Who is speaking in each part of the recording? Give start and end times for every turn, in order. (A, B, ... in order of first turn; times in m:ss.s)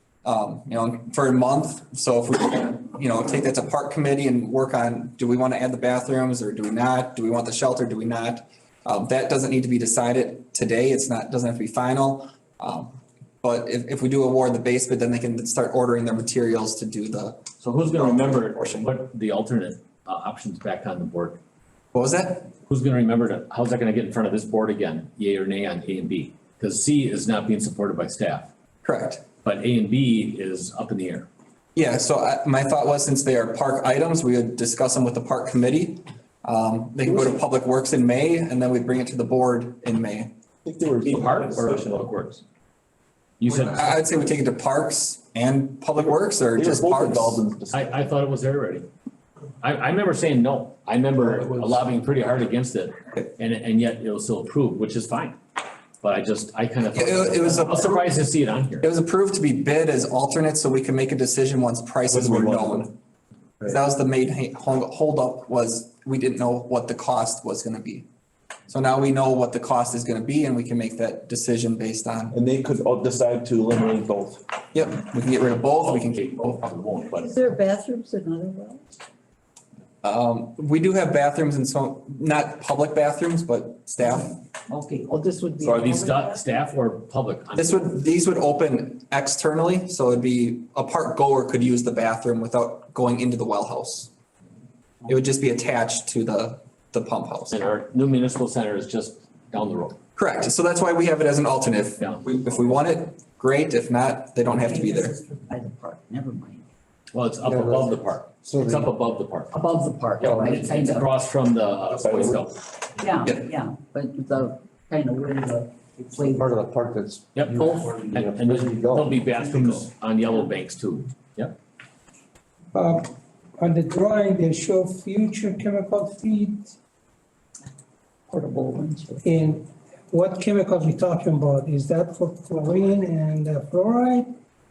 0:00.2-0:18.9 A
0:17.6-0:21.4 B
0:21.9-0:22.5 A
0:22.6-0:28.5 B
0:28.8-0:29.2 A
0:29.4-0:31.3 B
0:31.8-0:40.3 A
0:37.0-0:37.3 C
0:40.6-0:42.2 C
0:41.0-0:42.4 B
0:43.4-0:44.0 B
0:43.5-0:47.4 A
0:46.0-0:48.1 C
0:47.7-0:48.9 B
0:49.6-0:55.4 B
0:56.0-0:58.9 B
0:56.9-0:58.0 A
0:58.8-1:02.9 A
1:02.1-1:02.9 C
1:03.6-1:08.0 A
1:08.7-1:12.3 A
1:12.3-1:14.5 C
1:14.7-1:16.6 A
1:15.8-1:17.4 B
1:17.1-1:18.8 D
1:20.0-1:24.3 A
1:24.7-1:26.6 D
1:25.6-1:27.9 B
1:27.6-1:34.1 A
1:35.1-1:37.7 A
1:37.5-1:40.0 B
1:40.2-1:45.1 A
1:42.0-1:42.3 B
1:44.5-1:46.6 D
1:47.1-1:49.6 B
1:47.4-1:48.9 E
1:49.5-1:51.1 D
1:50.2-1:52.6 B
1:50.2-1:50.6 E
1:51.9-1:52.4 C
1:53.0-1:56.6 D
1:56.4-1:59.2 E
1:57.3-2:01.6 B
2:02.7-2:06.8 F
2:08.3-2:14.3 F